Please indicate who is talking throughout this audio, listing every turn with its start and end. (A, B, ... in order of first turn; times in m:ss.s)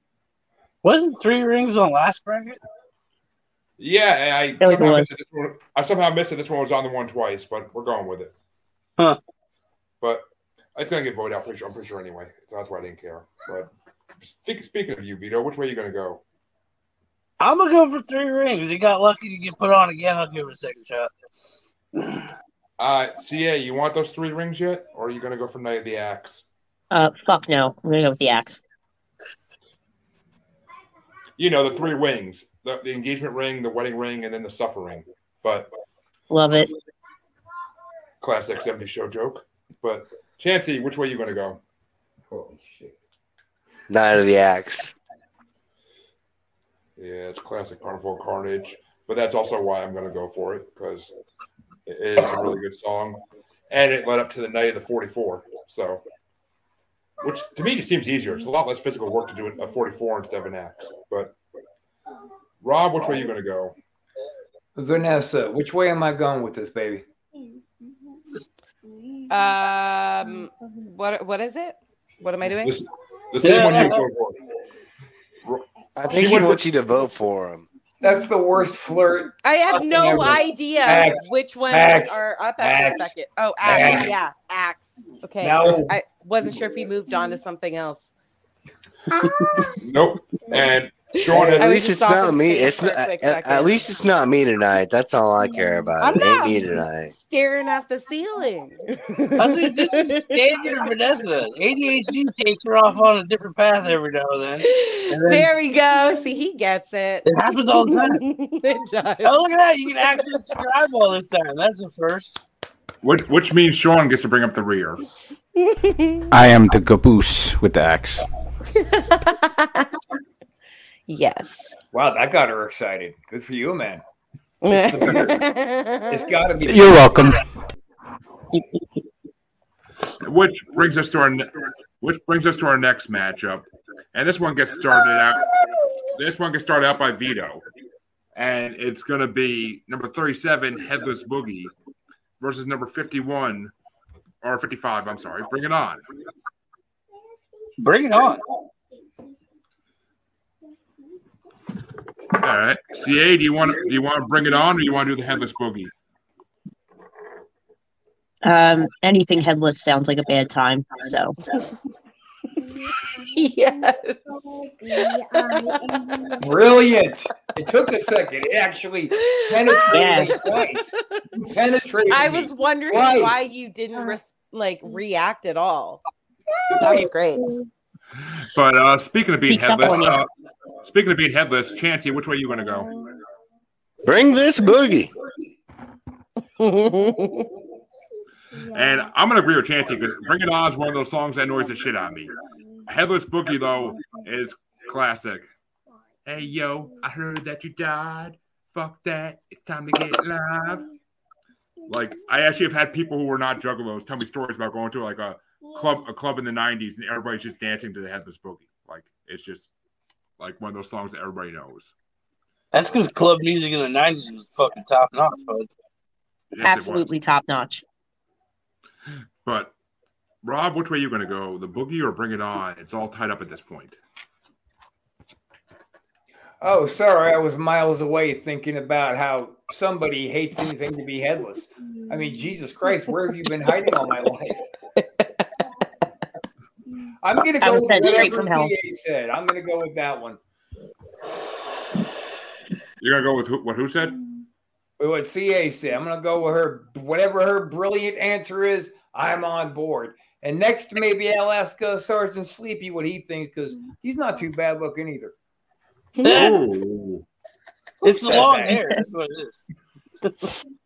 0:00.8-0:02.6 A
0:03.8-0:08.3 B
0:04.6-0:05.1 C
0:10.7-0:13.7 B
0:14.2-0:16.2 B
0:17.4-0:21.1 A
0:22.0-0:22.3 A
0:22.8-0:26.4 B
0:26.9-0:28.6 C
0:31.4-0:35.7 B
0:36.3-0:36.7 C
0:38.2-0:41.6 B
0:42.3-0:42.9 D
0:43.9-0:44.9 E
0:47.0-0:51.1 B
0:51.9-0:56.0 B
0:57.2-1:01.3 B
1:02.6-1:03.7 B
1:04.8-1:07.0 D
1:09.3-1:12.8 F
1:12.6-1:14.4 B
1:13.4-1:14.0 A
1:15.4-1:16.6 B
1:16.0-1:17.6 E
1:18.0-1:19.3 D
1:19.4-1:28.1 F
1:19.9-1:24.1 D
1:25.4-1:25.9 D
1:29.2-1:29.7 F
1:29.8-1:31.7 B
1:31.2-1:33.8 F
1:31.3-1:37.1 E
1:36.0-1:40.7 F
1:39.4-1:45.5 A
1:44.6-1:49.4 F
1:47.2-1:48.2 A
1:49.2-1:52.4 A
1:53.0-1:55.0 B
1:55.6-1:56.2 F
1:56.3-1:58.2 G
1:58.8-1:59.9 F
2:01.1-2:01.7 F
2:01.9-2:04.0 D
2:04.6-2:06.2 F
2:04.6-2:05.5 D
2:06.1-2:07.2 D
2:06.6-2:07.4 G
2:10.2-2:15.5 B
2:16.1-2:17.6 B
2:18.4-2:21.7 B
2:22.4-2:23.7 B
2:24.4-2:26.0 B
2:27.8-2:28.4 A
2:32.4-2:35.9 B
2:38.4-2:41.4 C
2:43.2-2:44.2 F
2:44.9-2:46.3 F
2:46.4-2:53.4 D
2:49.2-2:50.2 F
2:49.9-2:50.4 C
2:52.1-2:56.0 F
2:56.8-2:57.5 F
2:58.3-3:00.3 B
2:59.4-3:00.2 C
3:00.8-3:02.9 B
3:04.0-3:05.1 E
3:06.6-3:07.5 F
3:08.7-3:12.3 B
3:12.8-3:15.5 B
3:16.2-3:20.9 B
3:21.9-3:29.7 B
3:30.4-3:31.9 B
3:32.7-3:35.7 A
3:36.5-3:37.1 B
3:36.6-3:37.8 C
3:39.4-3:39.7 B
3:40.4-3:44.0 B
3:46.6-3:54.7 D
3:57.2-4:00.4 D
3:57.6-3:58.7 C
4:03.0-4:04.2 B
4:05.0-4:15.3 D
4:16.2-4:16.6 A
4:16.2-4:17.2 B
4:18.0-4:19.6 A
4:18.0-4:18.8 D